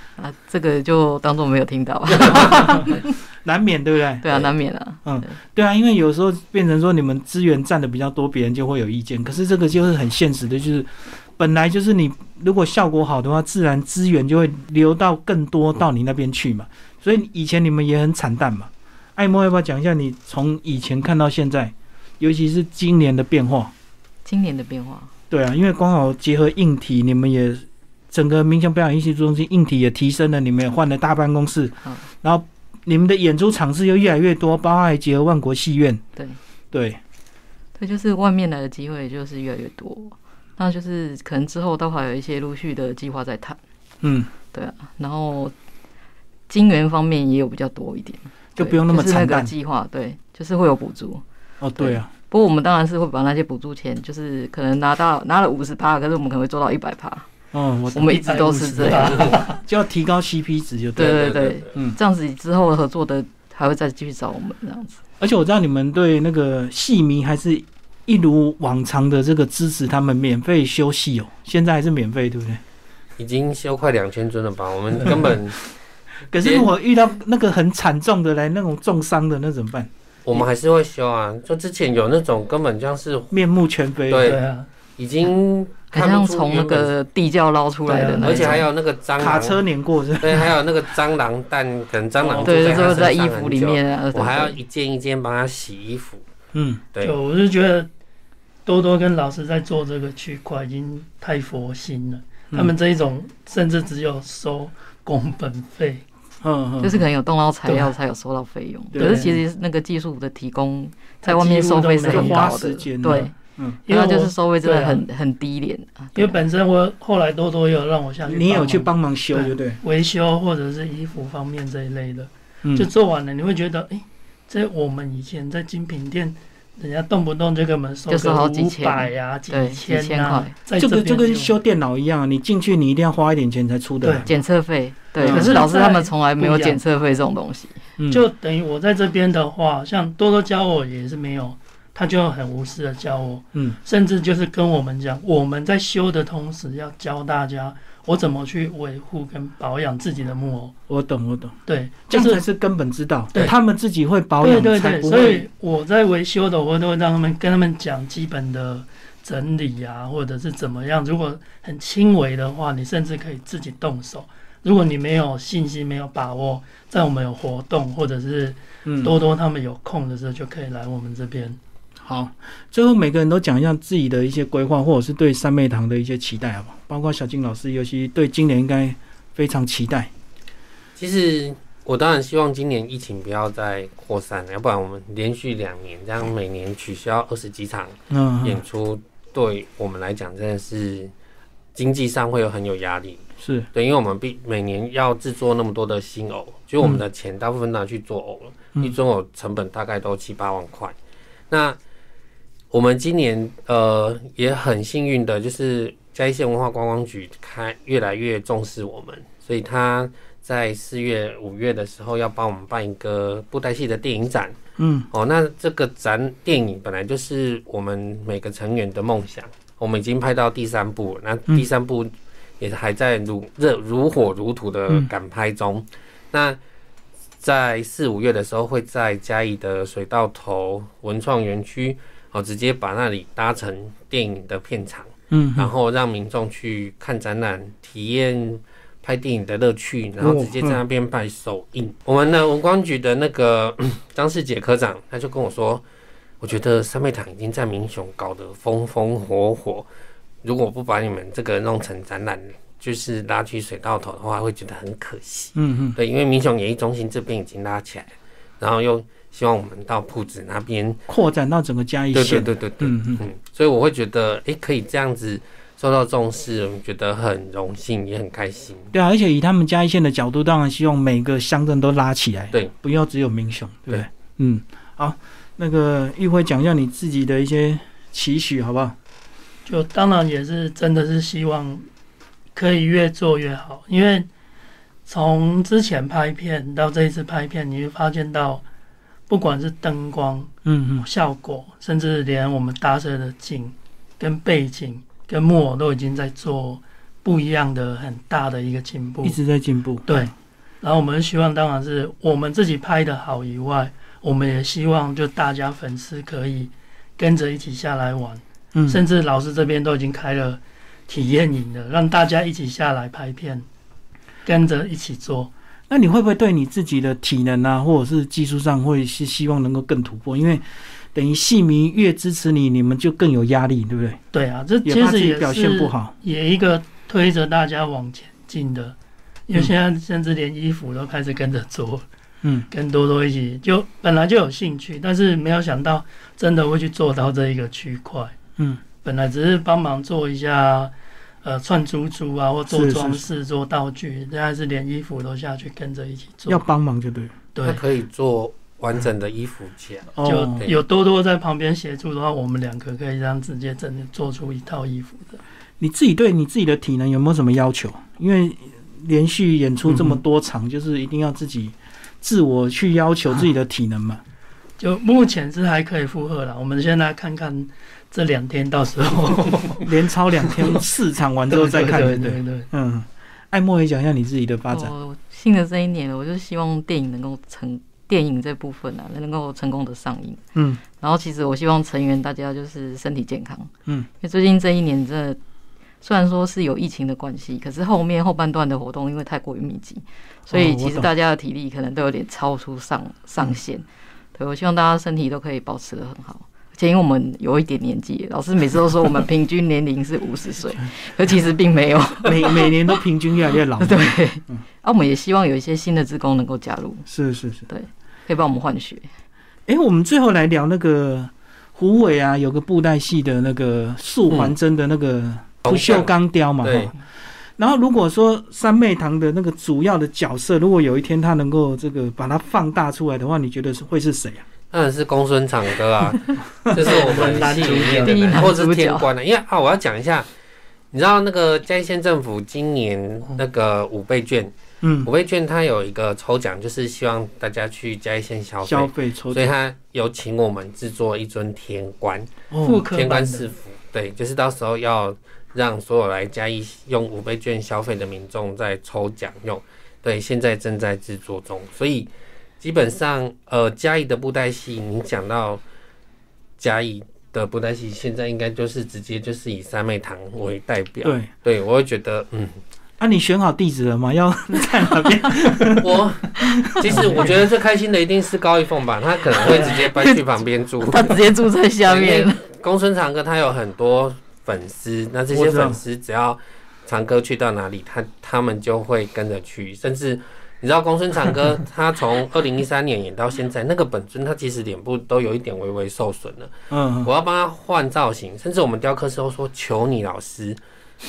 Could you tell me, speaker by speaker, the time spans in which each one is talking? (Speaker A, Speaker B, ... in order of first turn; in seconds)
Speaker A: 0.2-3.1, 4.2-5.3, 24.2-25.1, 37.8-43.6, 44.5-45.5, 46.5-51.2, 51.8-57.3, 57.9-59.4, 61.0-65.0, 85.9-88.7, 92.4-94.6, 106.8-113.3, 113.9-116.4, 128.1-130.5, 134.2-137.8, 374.7-380.4, 381.0-385.4, 386.0-393.8, 394.4-402.8, 403.8-407.1, 407.7-409.1, 427.8-429.1, 469.4-470.2, 470.8-472.4
Speaker B: 3.4-4.3, 5.0-23.7, 25.3-36.0, 36.7-37.0, 44.0-44.3, 48.6-49.5, 51.6-52.1, 57.5-62.0, 65.2-72.6, 76.3-80.4, 83.3-84.4, 89.2-90.5, 96.5-96.8, 106.4-107.0, 108.9-109.4, 112.0-113.8, 118.2-119.8, 122.6-122.9, 130.8-134.3, 135.2-135.6, 138.0-138.2, 150.9-151.6, 152.1-155.5, 168.9-169.1, 172.0-180.1, 188.1-188.6, 193.4-193.7, 214.8-215.1, 235.3-235.7, 240.2-240.8, 255.6-255.9, 261.1-263.2, 268.9-278.9, 290.6-291.1, 299.2-300.1, 308.8-309.0, 315.9-320.6, 321.1-324.2, 324.9-326.1, 342.7-343.2, 346.5-347.3, 350.1-350.7, 355.8-364.2, 369.8-374.9, 380.6-380.8, 390.5-391.1, 402.2-404.6, 407.1-407.6, 409.7-416.9, 417.6-424.4, 434.8-435.1, 438.6-439.5, 442.5-442.8, 461.0-461.3, 463.0-465.9, 466.7-467.1, 475.3-475.8, 486.7-487.1
Speaker C: 58.1-59.6, 84.2-84.7, 87.9-88.7, 92.2-93.1, 97.0-97.9, 98.6-106.0, 107.6-107.9, 109.0-109.4, 111.2-112.5, 113.9-115.0, 116.1-131.5, 134.0-134.3, 135.2-136.8, 138.1-150.7, 151.7-152.4, 154.4-171.6, 279.6-281.9, 282.6-284.3, 285.1-288.6, 289.3-299.4, 300.1-313.6, 314.4-315.5, 324.3-328.9, 329.5-332.1, 332.7-338.4, 339.0-346.6, 347.6-347.8, 350.2-355.4, 364.8-369.9, 370.5-370.8, 371.5-372.7, 426.8-428.4, 442.6-443.5
Speaker D: 61.0-61.7, 73.2-75.6, 76.4-76.7, 80.2-83.3, 84.1-84.4, 85.0-86.9, 88.2-89.6, 90.2-96.2, 181.0-191.1, 191.8-200.9, 201.5-201.8, 202.7-214.6, 215.1-226.6, 227.4-245.8, 246.4-249.9, 250.4-261.0, 262.1-268.9, 347.6-350.1, 415.6-416.9, 424.7-430.3, 430.9-442.4, 442.9-455.6, 456.6-462.6, 465.8-471.3, 471.9-490.6